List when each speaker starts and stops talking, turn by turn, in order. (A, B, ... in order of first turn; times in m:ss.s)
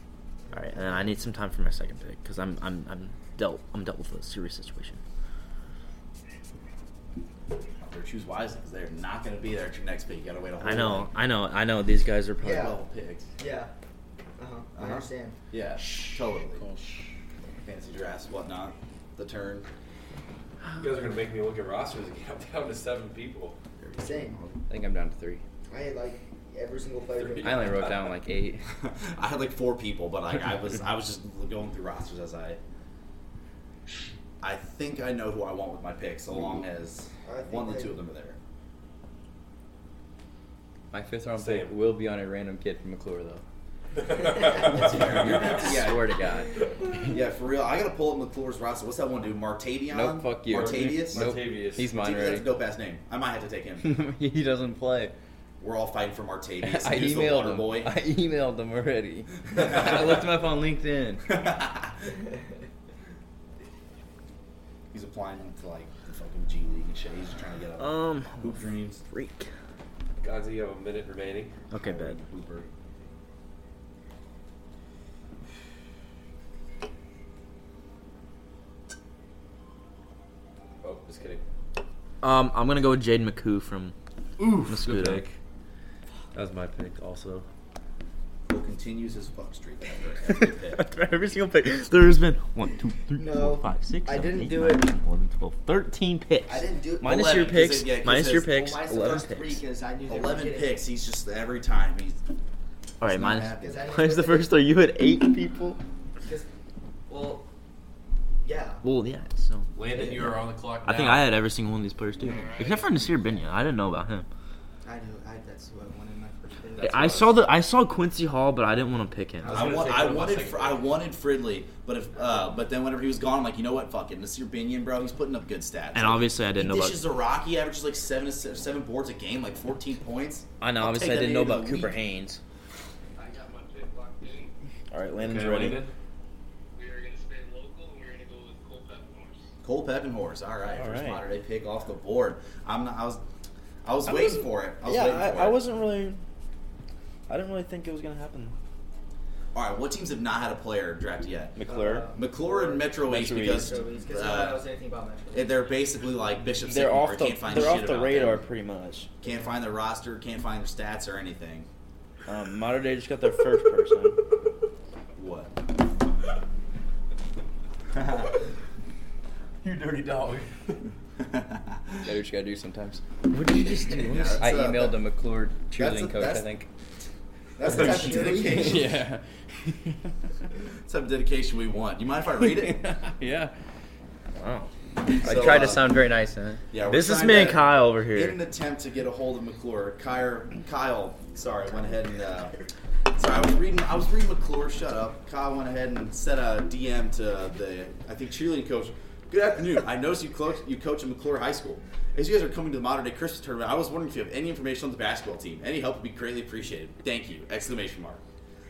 0:00.4-0:01.2 A
0:00.5-0:05.0 B
0:07.8-0:11.2 C
0:10.6-0:12.7 B
0:12.4-0:12.8 A
0:12.5-0:13.3 C
0:13.4-0:13.7 A
0:14.4-0:15.4 A
0:14.8-0:16.6 C
0:17.6-0:19.7 C
0:20.8-0:23.6 D
0:23.8-0:24.6 C
0:24.0-0:24.4 A
0:24.7-0:25.4 E
0:25.7-0:27.8 A
0:27.1-0:28.0 D
0:27.4-0:28.6 E
0:28.7-0:32.6 C
0:34.4-0:38.4 C
0:37.2-0:38.0 A
0:40.9-0:43.4 E
0:41.4-0:41.7 D
0:44.0-0:45.6 D
0:44.4-0:46.5 E
0:44.7-0:46.1 C
0:47.0-0:53.9 C
0:49.9-0:52.5 E
0:50.5-0:51.9 D
0:53.8-0:55.1 E
0:55.6-0:57.9 C
0:56.6-1:01.2 E
1:01.3-1:01.9 C
1:04.9-1:09.0 C
1:07.8-1:09.5 B
1:10.2-1:11.6 D
1:11.7-1:12.2 B
1:11.7-1:12.7 C
1:20.8-1:21.4 D
1:22.2-1:23.9 B
1:24.4-1:25.4 D
1:24.6-1:25.2 B
1:26.3-1:27.4 D
1:28.5-1:30.9 C
1:30.3-1:39.6 B
1:33.1-1:34.9 A
1:36.5-1:37.4 A
1:37.0-1:38.9 C
1:38.4-1:40.8 A
1:40.1-1:42.2 C
1:43.0-1:43.8 C
1:43.0-1:45.8 B
1:43.6-1:44.5 A
1:46.2-1:46.5 A
1:47.1-1:47.5 A
1:48.4-1:48.8 A
1:48.8-1:50.1 B
1:49.7-1:51.3 D
1:50.8-1:54.2 B
1:52.2-1:52.9 F
1:52.6-1:53.4 A
1:54.8-1:57.3 A
1:56.8-1:57.3 D
1:56.8-1:59.7 B
1:59.4-2:00.0 A
1:59.4-2:00.9 D
1:59.5-2:12.0 C
2:05.9-2:07.0 B
2:10.6-2:12.4 B
2:13.2-2:14.5 F
2:14.9-2:15.8 B
2:15.2-2:15.9 D
2:16.7-2:19.4 F
2:19.6-2:23.2 C
2:20.7-2:21.2 B
2:23.8-2:25.6 C
2:24.0-2:26.2 B
2:27.3-2:28.5 B
2:29.5-2:31.6 C
2:31.6-2:32.1 B
2:31.6-2:35.8 A
2:32.1-2:34.6 C
2:33.0-2:33.8 B
2:35.3-2:38.5 C
2:36.6-2:39.1 B
2:39.2-2:41.7 C
2:39.2-2:39.5 A
2:42.3-2:44.2 B
2:45.2-2:45.5 C
2:48.0-2:48.2 C
2:49.6-2:50.8 D
2:51.2-2:52.0 C
2:52.0-2:53.0 E
2:53.3-2:54.5 B
2:54.0-2:55.0 C
2:54.3-2:56.7 E
2:55.7-2:56.5 C
2:57.6-2:59.0 C
2:57.6-2:58.9 A
2:57.8-2:59.0 B
2:58.6-2:59.2 E
3:00.8-3:03.0 C
3:03.1-3:03.5 E
3:04.4-3:05.7 B
3:05.1-3:06.0 C
3:05.2-3:06.6 E
3:06.7-3:12.5 C
3:06.8-3:08.4 B
3:13.1-3:28.2 C